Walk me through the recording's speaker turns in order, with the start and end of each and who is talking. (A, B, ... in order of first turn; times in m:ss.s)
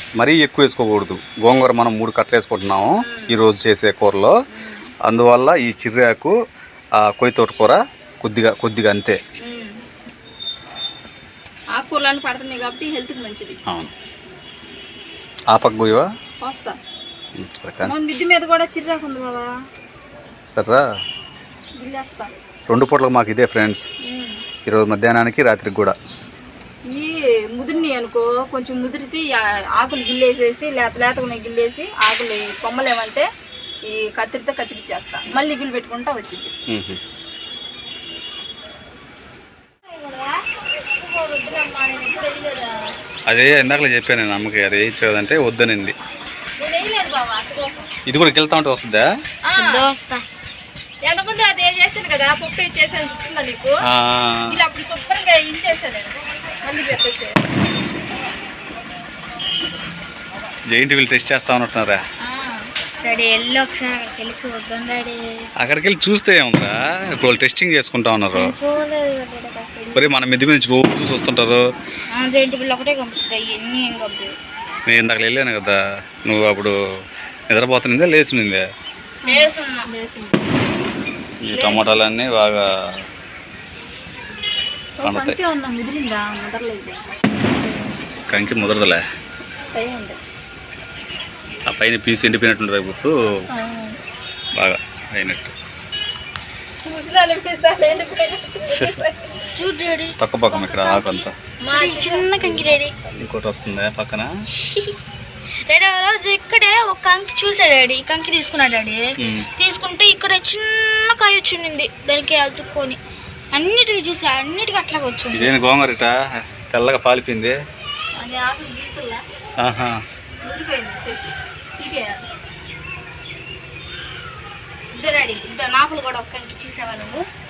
0:00.2-0:04.4 A
0:03.0-0:03.3 B
0:04.5-0:04.9 B
0:05.0-0:06.3 A
0:07.0-0:09.2 A
0:09.4-0:09.8 B
0:11.7-0:13.6 B
0:13.7-0:13.9 A
0:15.5-0:16.1 A
0:16.4-0:16.8 B
0:17.4-0:17.9 A
0:17.8-0:19.5 B
0:20.5-0:20.8 A
0:21.8-0:22.3 B
0:22.7-0:23.8 A
0:24.0-0:24.4 B
0:24.6-0:26.0 A
0:26.9-0:33.3 B
0:33.8-0:36.5 B
0:36.7-0:37.0 A
0:39.9-0:40.4 C
0:40.9-0:42.9 B
0:43.3-0:45.9 A
0:46.6-0:47.9 B
0:48.1-0:49.1 A
0:49.4-0:49.8 B
0:49.6-0:50.2 C
0:51.0-0:53.8 B
0:53.8-0:54.6 A
0:54.5-0:57.4 B
1:00.7-1:02.0 A
1:02.2-1:02.7 B
1:03.0-1:05.5 C
1:05.6-1:08.5 A
1:08.3-1:10.1 C
1:09.9-1:11.6 A
1:12.1-1:14.3 C
1:14.9-1:16.8 A
1:17.5-1:18.6 A
1:19.2-1:20.6 B
1:19.3-1:19.9 C
1:21.4-1:23.0 A
1:21.5-1:22.1 B
1:25.0-1:27.5 B
1:25.0-1:25.4 A
1:28.3-1:29.0 A
1:29.7-1:30.2 B
1:31.7-1:33.4 A
1:33.5-1:34.0 B
1:34.5-1:35.5 A
1:36.8-1:39.3 B
1:39.5-1:43.0 C
1:40.2-1:41.3 A
1:41.6-1:42.7 B
1:43.1-1:44.3 A
1:44.6-1:45.0 C
1:45.7-1:53.0 C
1:49.2-1:49.5 A
1:53.5-1:55.5 C
1:55.3-1:57.6 A
1:58.2-1:59.2 B
1:59.6-2:00.0 A
2:00.4-2:02.3 B
2:04.9-2:07.2 C